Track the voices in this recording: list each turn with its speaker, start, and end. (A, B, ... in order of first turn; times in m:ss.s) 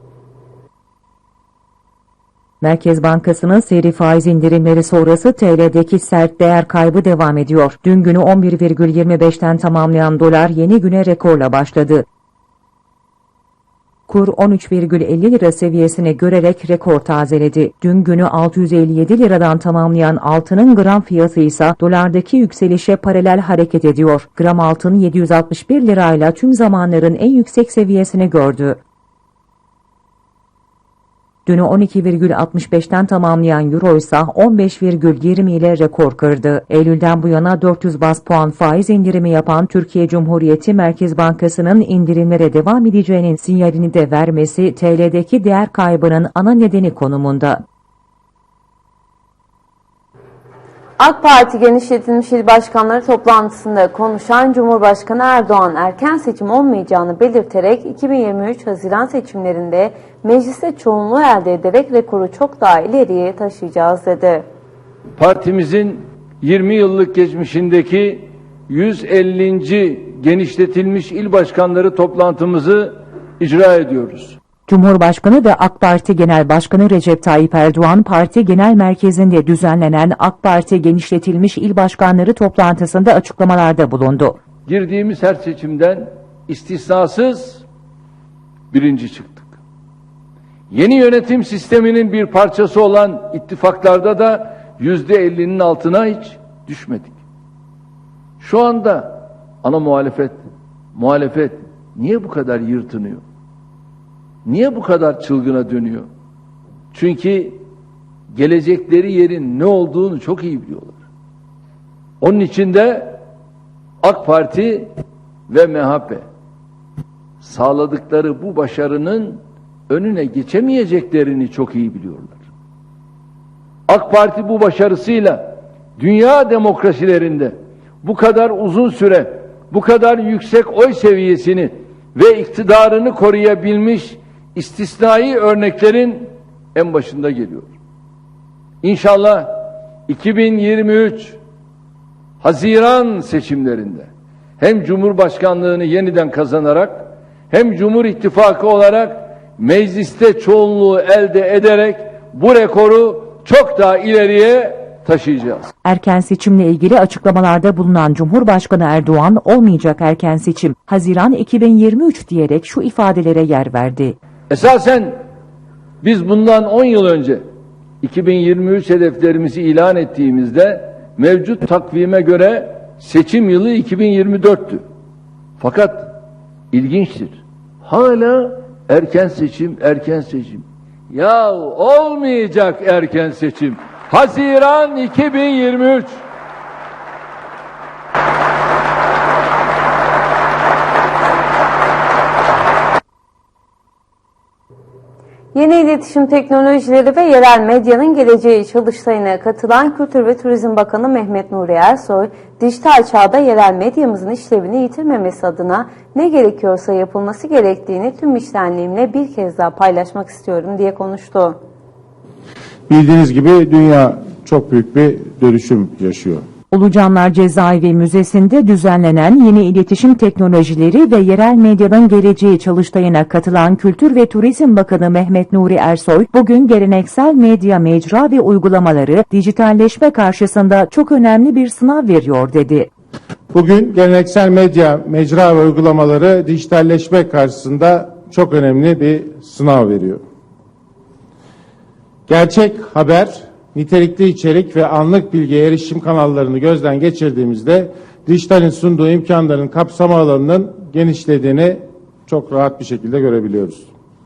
0:02.6-0:12.1 A
0:14.1-0:28.8 A
0:31.5-0:47.6 A
0:51.0-1:04.4 B
1:05.2-1:14.4 C
1:14.7-1:24.4 A
1:24.7-1:27.6 C
1:28.7-1:29.5 C
1:30.7-1:37.2 C
1:38.4-1:40.4 C
1:41.0-1:43.2 C
1:44.4-1:46.1 C
1:46.9-1:47.6 C
1:48.3-1:51.0 C
1:52.2-1:53.2 C
1:54.0-1:54.9 C
1:55.5-1:56.2 C
1:57.4-2:02.4 C
2:03.9-2:17.7 C
2:18.8-2:21.4 C
2:22.4-2:24.1 C
2:24.6-2:35.7 C
2:35.8-2:44.2 A
2:44.5-2:45.2 C
2:46.0-2:47.4 C
2:48.0-2:54.8 C
2:55.6-2:56.2 C
2:56.7-3:06.2 C
3:15.5-3:31.6 B
3:32.9-3:36.5 D
3:36.7-3:52.9 A
3:53.5-4:00.2 D
4:02.3-4:13.9 D